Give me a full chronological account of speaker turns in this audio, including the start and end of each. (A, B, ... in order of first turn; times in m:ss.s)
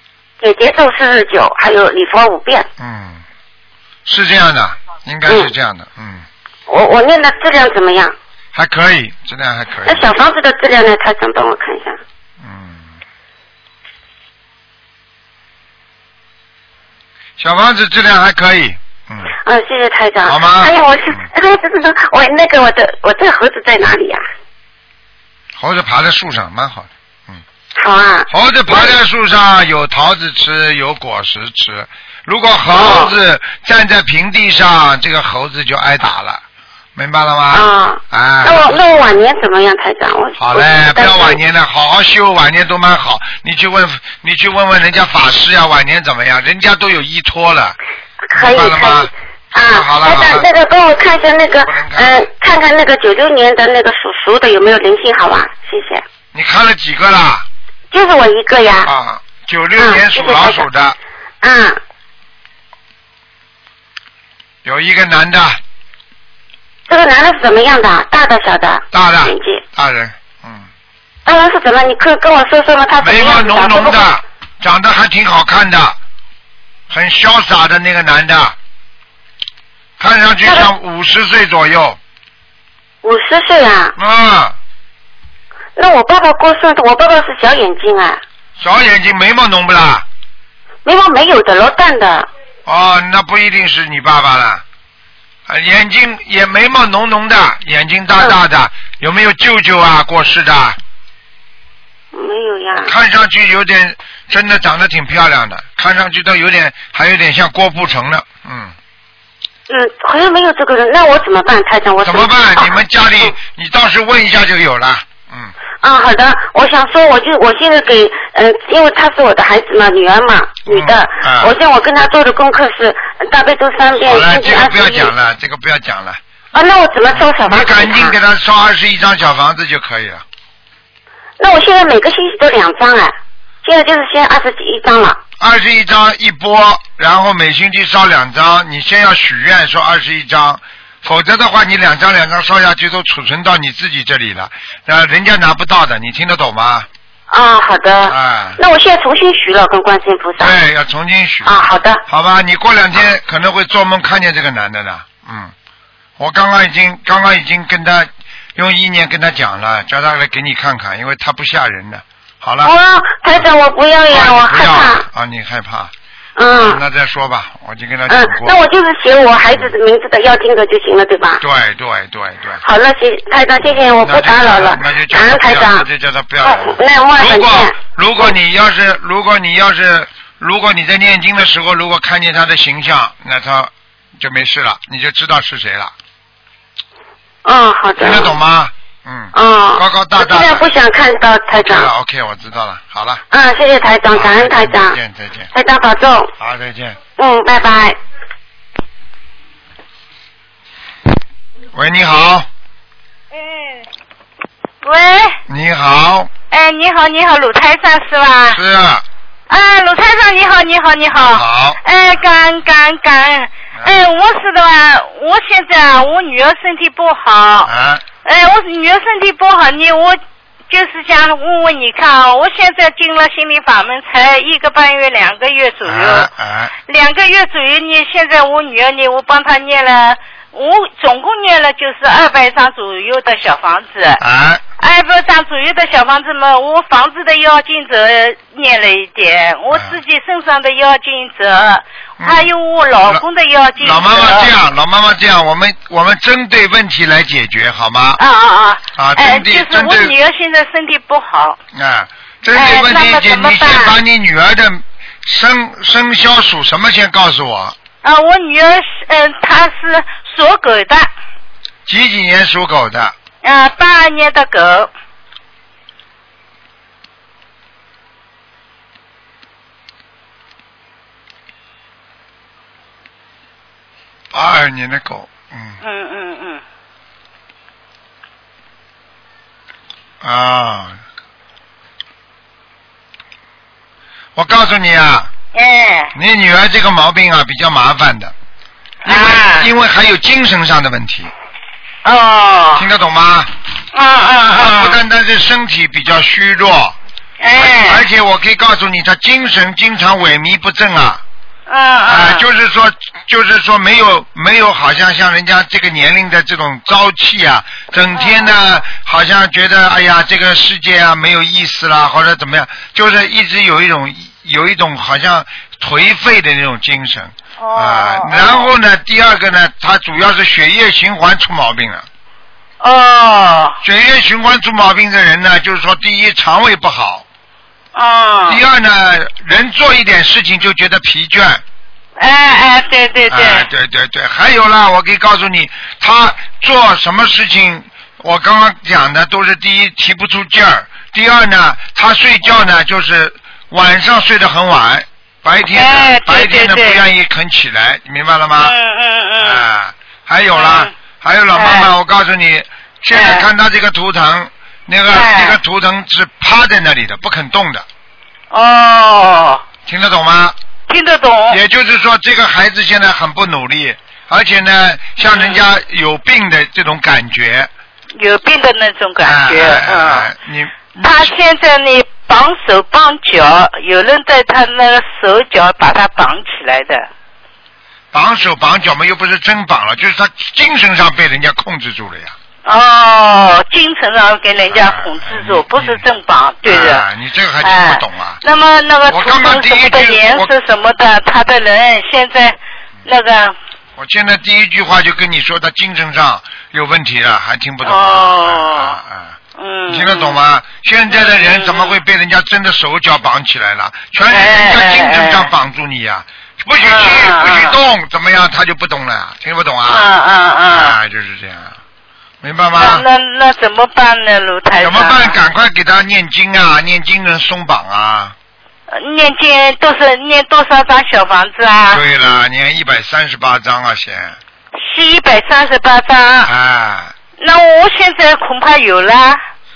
0:00.4-0:02.7 A
0:02.8-0:03.2 B
0:04.1-0:06.3 B
0:06.7-0:08.2 A
0:08.5-0:10.1 B
0:09.9-0:12.0 A
0:12.4-0:13.0 B
0:17.4-0:19.3 B
0:19.4-0:24.2 A
0:20.3-0:21.3 B
0:25.6-0:27.4 B
0:27.8-0:29.0 A
0:28.3-0:36.4 B
0:32.7-0:33.1 A
0:37.0-0:39.2 B
0:37.5-0:41.4 A
0:40.4-0:47.8 B
0:48.3-0:56.0 A
0:48.3-0:50.5 B
0:51.6-0:52.3 B
0:56.3-0:57.5 B
0:57.9-0:58.9 A
0:58.8-1:01.0 B
0:59.8-1:00.6 A
1:01.4-1:01.8 A
1:04.6-1:05.6 B
1:06.9-1:09.6 A
1:08.9-1:10.7 B
1:11.3-1:14.0 A
1:13.0-1:16.0 B
1:16.9-1:18.6 B
1:20.0-1:22.0 B
1:23.0-1:24.0 A
1:24.0-1:24.6 B
1:25.8-1:28.2 A
1:28.6-1:30.0 B
1:30.8-1:32.3 A
1:32.7-1:34.6 B
1:35.5-1:40.8 B
1:42.1-1:42.9 A
1:42.8-1:48.7 B
1:49.7-1:52.8 A
1:52.0-1:55.5 B
1:55.8-2:05.1 A
2:00.7-2:01.6 B
2:04.0-2:06.2 B
2:06.5-2:08.2 A
2:07.1-2:10.2 B
2:11.4-2:15.2 A
2:15.4-2:26.9 B
2:27.3-2:30.6 A
2:28.1-2:28.6 B
2:30.4-2:35.5 B
2:31.4-2:32.0 A
2:36.2-2:42.7 B
2:42.6-2:45.0 A
2:44.1-2:45.9 B
2:46.4-2:46.8 A
2:46.5-2:48.6 B
2:48.1-2:51.4 A
2:51.4-2:52.6 B
2:52.6-2:55.9 A
2:54.0-3:05.9 B
2:56.4-2:58.3 A
3:07.4-3:08.4 A
3:08.0-3:10.7 B
3:09.3-3:11.9 A
3:11.5-3:13.2 B
3:13.3-3:15.0 A
3:14.1-3:15.5 B
3:15.5-3:16.3 A
3:16.4-3:17.0 B
3:17.2-3:18.0 A
3:21.7-3:22.5 B
3:23.3-3:23.9 C
3:24.8-3:25.4 C
3:25.5-3:26.3 B
3:26.5-3:28.6 C
3:28.5-3:29.0 B
3:29.5-3:37.7 C
3:31.2-3:31.8 B
3:37.6-3:38.0 B
3:38.2-3:46.3 C
3:45.8-3:46.7 B
3:46.9-3:54.2 C
3:54.2-3:54.6 B
3:54.8-4:04.5 C
3:59.7-4:00.0 B
4:02.2-4:02.5 B
4:03.8-4:08.2 B
4:08.2-4:11.6 C
4:09.0-4:10.2 B
4:11.7-4:17.8 B
4:12.5-4:14.0 C
4:18.0-4:21.1 C
4:21.9-4:23.2 B
4:23.4-4:24.9 C
4:34.3-4:35.8 B
4:35.8-4:36.6 C
4:40.2-4:41.0 B
4:44.4-4:45.3 B
4:45.5-4:46.1 C
4:46.2-4:48.3 B
4:49.0-4:49.7 C
4:49.0-4:51.3 B
4:52.0-4:52.9 C
4:52.8-4:53.5 B
4:53.9-4:55.0 C
4:54.5-4:57.0 B
4:57.4-4:58.1 C
4:57.6-5:01.2 B
5:01.7-5:02.4 C
5:02.1-5:22.1 B
5:08.1-5:08.5 C
5:17.6-5:18.7 C
5:22.8-5:23.8 C
5:23.8-5:27.2 B
5:28.0-5:28.6 C
5:28.5-5:31.6 B
5:32.2-5:33.7 C
5:33.3-5:48.8 B
5:45.7-5:47.0 C
5:48.6-5:49.6 C
5:49.4-5:57.9 B
5:50.5-5:50.9 C
5:51.5-5:51.9 C
5:53.1-5:53.5 C
5:55.1-5:55.6 C
5:58.5-5:59.6 C
5:59.9-6:00.6 B
6:00.9-6:01.6 C
6:01.5-6:07.7 B
6:05.2-6:05.6 C
6:08.2-6:10.3 C
6:09.2-6:11.3 B
6:11.0-6:17.1 C
6:18.1-6:22.4 B
6:22.6-6:27.1 C
6:24.7-6:26.0 B
6:26.6-6:28.4 B
6:27.6-6:33.6 C
6:29.1-6:30.5 B
6:34.0-6:39.4 B
6:37.8-6:39.0 C
6:39.6-6:40.4 C
6:39.9-6:50.1 B
6:41.1-6:42.0 C
6:44.3-6:45.5 C
6:46.8-6:47.8 C
6:49.9-6:51.0 C
6:50.7-6:51.8 B
6:52.4-6:53.0 B
6:52.8-6:55.4 C
6:54.8-6:58.4 B
6:58.9-7:02.0 C
7:01.9-7:04.4 B
7:04.7-7:06.5 C
7:06.4-7:07.1 B
7:07.4-7:09.4 C